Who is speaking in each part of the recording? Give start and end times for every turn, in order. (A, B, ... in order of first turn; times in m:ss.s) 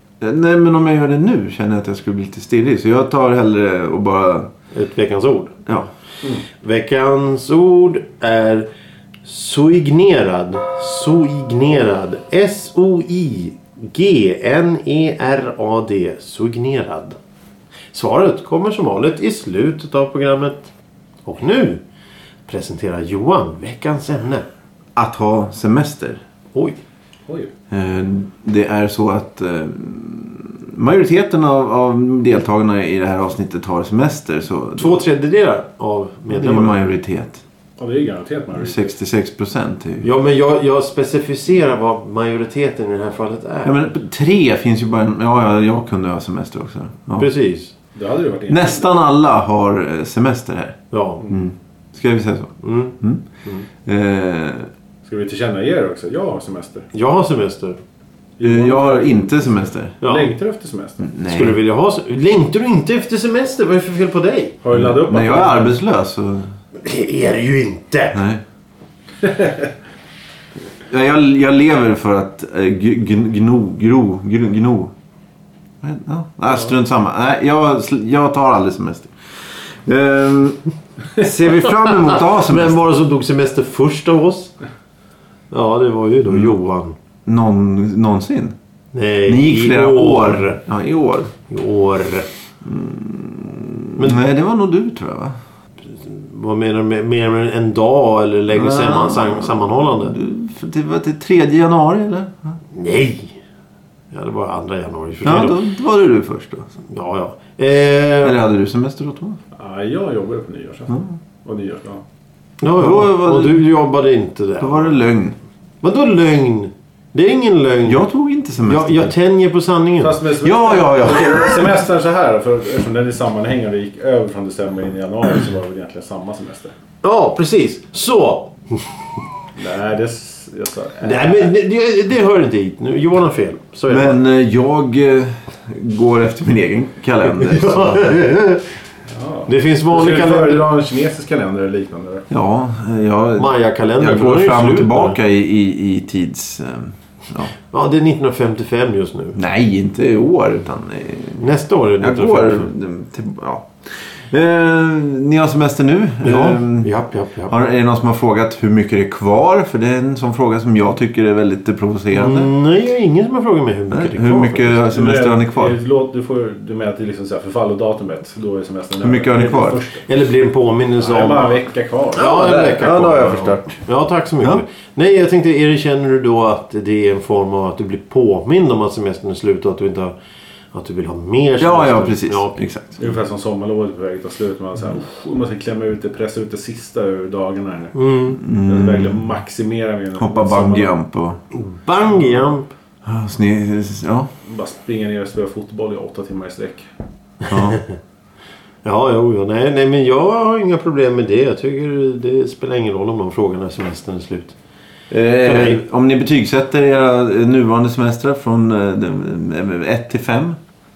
0:00.2-0:04.5 A
0:04.7-0:05.6 B
0:06.6-0:08.7 B
0:09.2-0:17.2 B
0:17.9-0:20.7 B
0:21.3-0:21.8 B
0:22.5-0:24.4 B
0:25.0-0:26.2 A
0:26.5-0:26.8 B
0:27.7-0:35.0 A
0:34.8-0:36.8 B
0:36.3-0:37.4 A
0:37.8-0:39.0 C
0:38.6-0:40.1 A
0:40.0-0:43.8 B
0:43.6-0:47.3 A
0:47.2-0:47.7 B
0:48.0-0:48.9 C
0:48.5-0:50.8 A
0:50.9-0:51.3 B
0:51.3-0:53.2 A
0:52.6-0:53.7 B
0:53.8-0:54.7 A
0:55.1-0:56.9 C
0:56.9-0:57.8 B
0:58.4-1:01.1 C
0:58.4-0:59.9 A
1:00.0-1:00.3 B
1:01.0-1:01.6 A
1:01.2-1:04.6 B
1:04.6-1:05.8 C
1:04.7-1:06.5 A
1:06.8-1:08.2 B
1:08.1-1:08.4 A
1:09.2-1:09.6 C
1:10.8-1:14.9 A
1:15.8-1:20.6 A
1:21.2-1:22.8 A
1:21.9-1:24.5 B
1:25.5-1:27.0 B
1:27.3-1:28.6 A
1:28.9-1:30.6 B
1:29.3-1:31.3 A
1:31.5-1:32.3 B
1:32.6-1:35.4 A
1:35.9-1:40.2 B
1:38.5-1:42.6 A
1:42.7-1:43.4 B
1:44.1-1:45.6 B
1:45.2-1:46.7 A
1:46.8-1:48.4 B
1:48.2-1:49.4 A
1:49.5-1:52.0 C
1:50.9-1:51.2 A
1:52.6-1:55.0 B
1:52.8-1:53.7 A
1:54.6-1:55.4 A
1:55.8-1:58.0 B
1:57.9-1:59.1 A
1:58.6-2:00.2 B
2:00.0-2:06.7 C
2:00.4-2:01.8 A
2:07.0-2:09.2 B
2:09.6-2:11.5 C
2:11.0-2:14.2 B
2:13.9-2:18.1 A
2:17.3-2:18.7 B
2:19.1-2:22.3 C
2:19.5-2:20.7 B
2:22.3-2:27.5 A
2:23.4-2:25.2 B
2:27.7-2:29.4 B
2:29.4-2:31.4 A
2:31.4-2:32.7 B
2:32.0-2:36.9 A
2:36.2-2:37.5 B
2:37.5-2:42.5 A
2:42.1-2:44.8 B
2:43.9-2:45.8 A
2:44.9-2:50.1 C
2:49.0-2:49.8 A
2:50.1-2:51.6 B
2:51.0-2:52.3 C
2:52.1-3:00.1 B
2:52.2-2:53.8 A
3:00.7-3:02.6 B
3:01.6-3:03.0 A
3:03.0-3:08.0 C
3:08.0-3:08.4 B
3:08.4-3:09.2 A
3:08.6-3:11.0 C
3:10.2-3:11.4 A
3:11.5-3:12.7 B
3:13.0-3:14.3 A
3:14.4-3:16.9 C
3:17.5-3:18.0 B
3:17.5-3:17.8 A
3:18.8-3:24.6 B
3:25.1-3:30.6 A
3:25.4-3:25.8 B